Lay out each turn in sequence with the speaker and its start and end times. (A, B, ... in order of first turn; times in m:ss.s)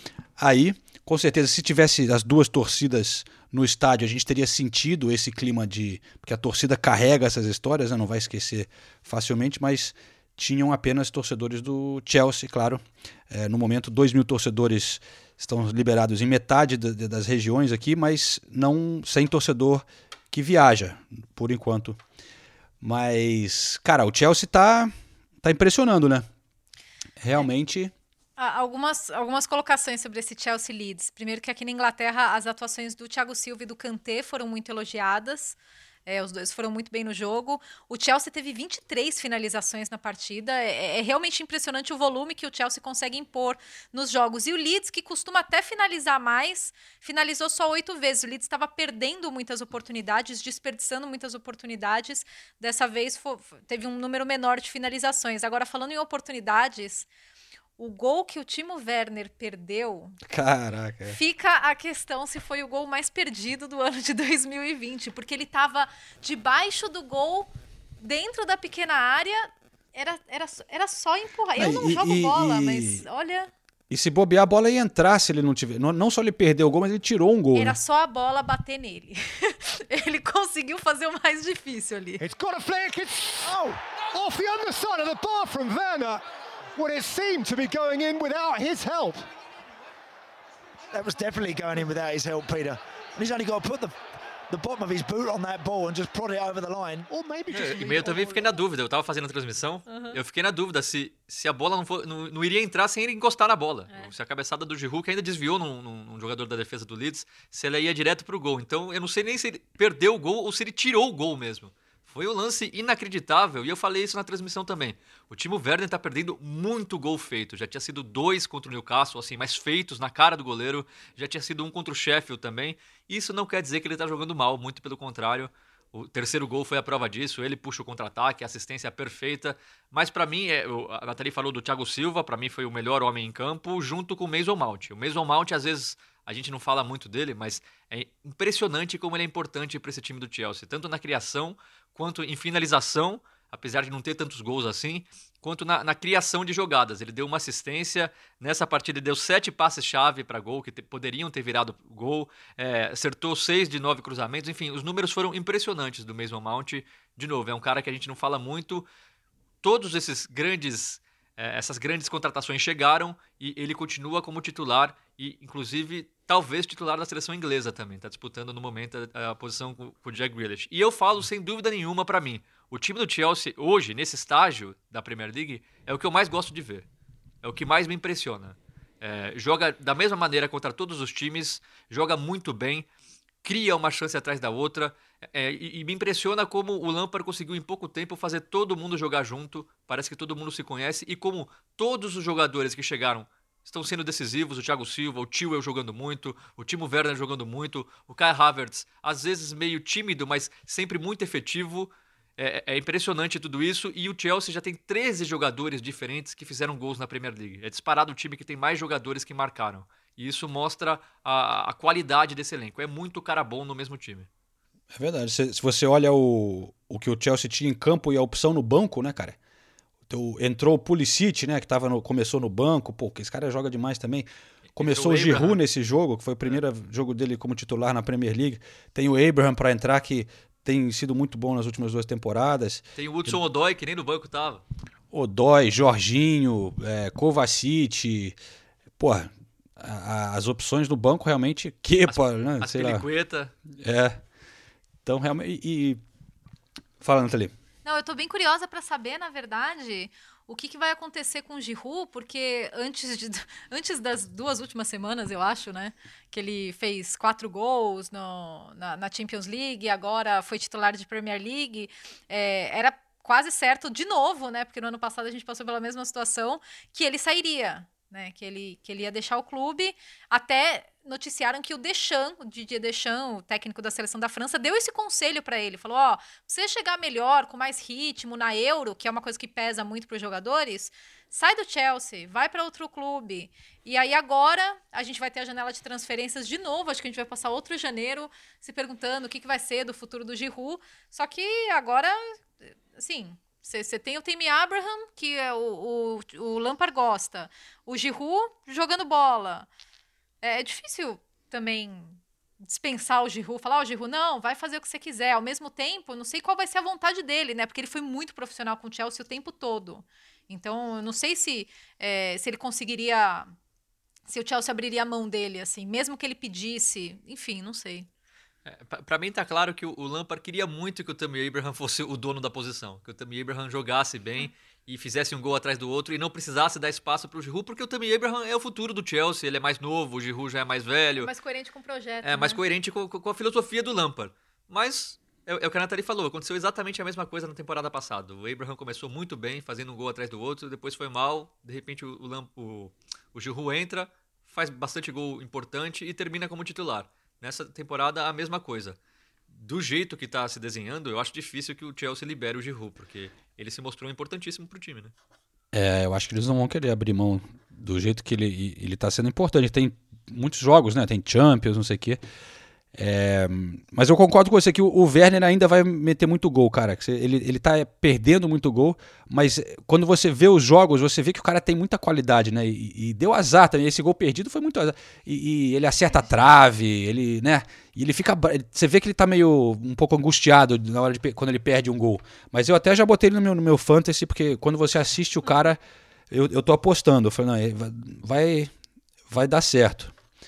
0:00.4-0:22.0 A
0:22.8-0:26.2 A
0:27.2-0:27.9 A
0:28.4-0:57.1 B
0:57.8-1:00.2 B
1:00.3-1:01.2 A
1:01.1-1:13.5 B
1:11.6-1:13.0 A
1:13.9-1:17.8 A
1:17.5-1:22.2 B
1:22.2-1:26.2 C
1:26.8-1:29.2 C
1:30.9-1:34.0 D
1:34.5-1:37.5 D
1:37.5-2:38.9 E
1:38.1-1:38.5 B
1:39.9-1:40.2 B
2:39.6-2:56.9 E
2:57.4-3:02.9 E
3:03.4-3:34.3 E
3:34.9-3:39.4 A
3:40.1-3:53.4 A
3:44.7-3:45.6 E
3:53.0-3:54.6 E
3:55.1-3:58.4 A
3:59.0-4:03.1 A
4:02.1-4:03.5 E
4:03.8-4:04.2 A
4:05.0-4:06.0 A
4:07.0-4:07.5 A
4:07.8-4:59.7 B
5:00.4-5:13.5 B
5:14.3-5:18.1 B
5:18.7-5:31.3 E
5:31.2-5:32.6 B
5:32.2-5:49.0 E
5:49.5-5:55.1 E
5:55.7-6:02.2 A
6:03.0-6:28.7 A
6:29.3-6:30.1 A